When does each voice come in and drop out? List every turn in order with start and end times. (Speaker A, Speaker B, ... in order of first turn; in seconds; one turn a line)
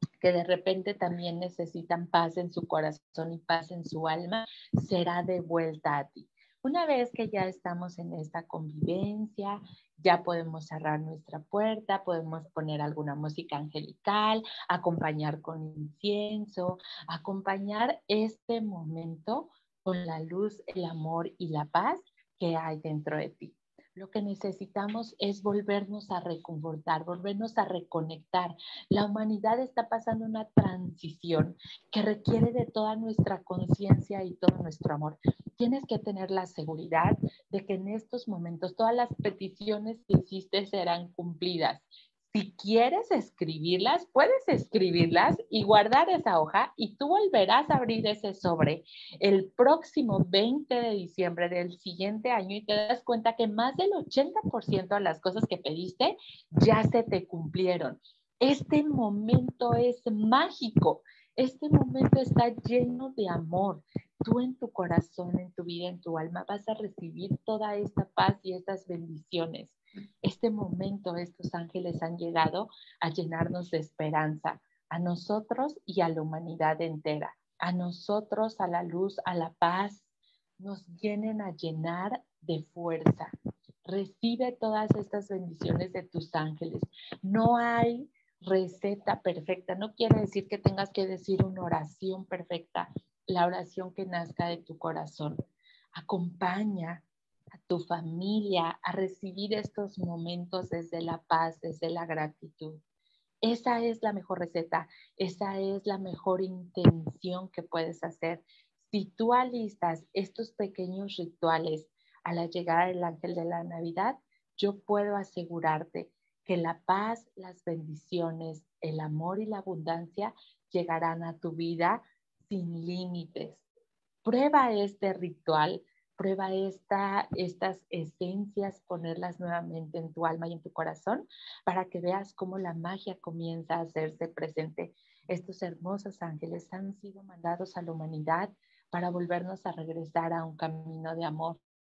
Speaker A: 0.2-80.0
Speaker A: 80.6-83.3
Speaker A: 83.8-95.4
Speaker A: 96.0-97.0
Speaker A: 97.7-102.8
Speaker A: 103.4-123.6
Speaker A: 124.2-141.6